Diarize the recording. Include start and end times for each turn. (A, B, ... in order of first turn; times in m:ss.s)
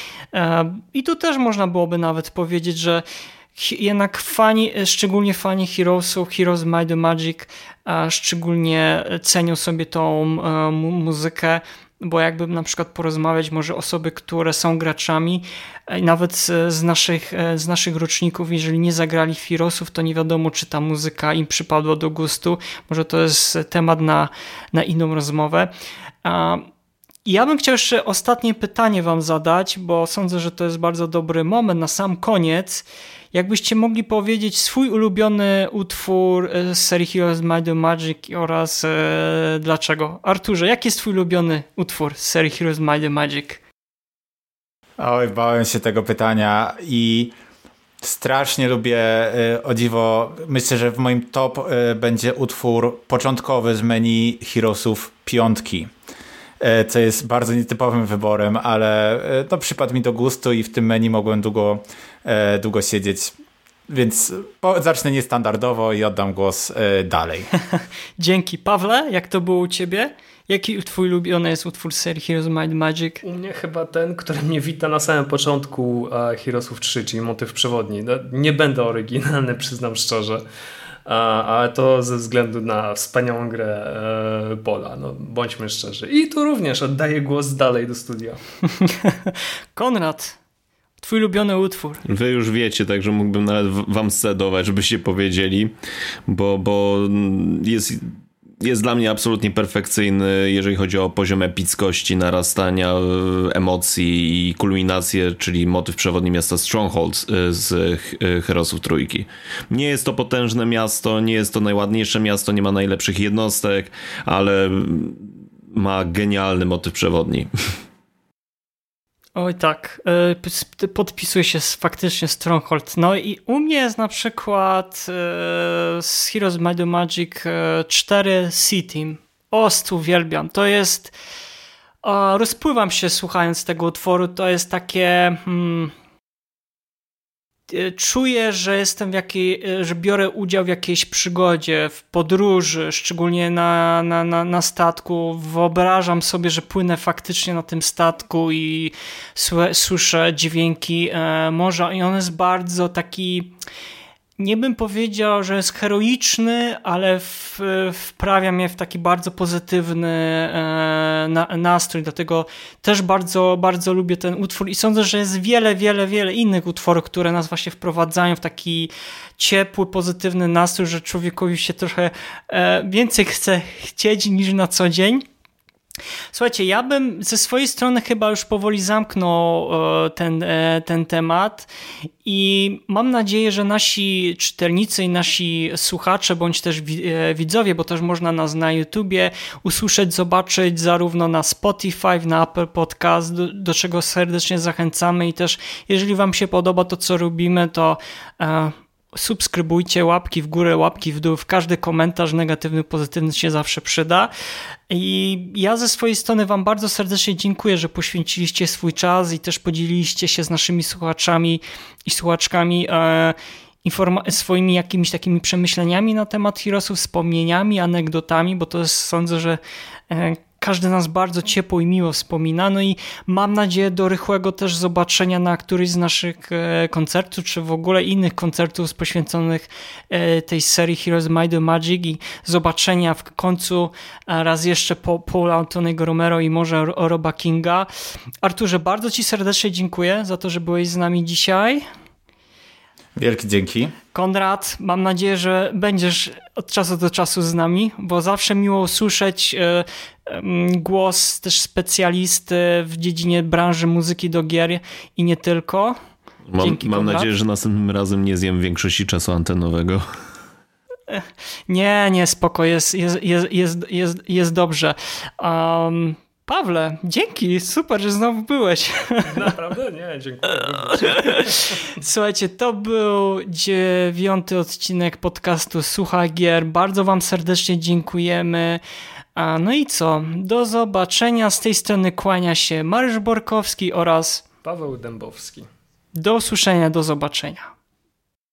0:00.3-0:03.0 A
0:03.6-0:25.7 A
0:26.2-0:26.6 A
0:27.2-0:43.6 A
0:45.0-0:47.3 B
0:48.0-0:55.9 B
0:56.6-1:03.3 B
1:03.9-1:07.5 B
1:07.8-1:13.2 A
1:13.2-1:20.4 C
1:21.0-1:28.4 C
1:28.7-1:30.4 A
1:31.0-1:32.0 A
1:32.0-1:35.7 D
1:36.3-1:57.5 D
1:59.4-2:11.1 A
2:12.0-2:15.9 A
2:17.7-2:33.5 A
2:34.4-2:55.2 A
2:56.3-3:01.7 A
3:02.2-3:24.3 A
3:24.9-3:39.6 A
3:40.1-3:57.9 A
3:58.4-4:01.8 A
4:03.2-4:03.9 B
4:04.1-4:16.0 A
4:16.5-4:20.0 D
4:16.6-4:17.3 A
4:21.1-4:29.3 A
4:29.3-4:31.8 C
4:31.0-4:38.8 A
4:39.4-4:44.4 A
4:44.6-4:45.7 C
4:46.1-4:47.7 A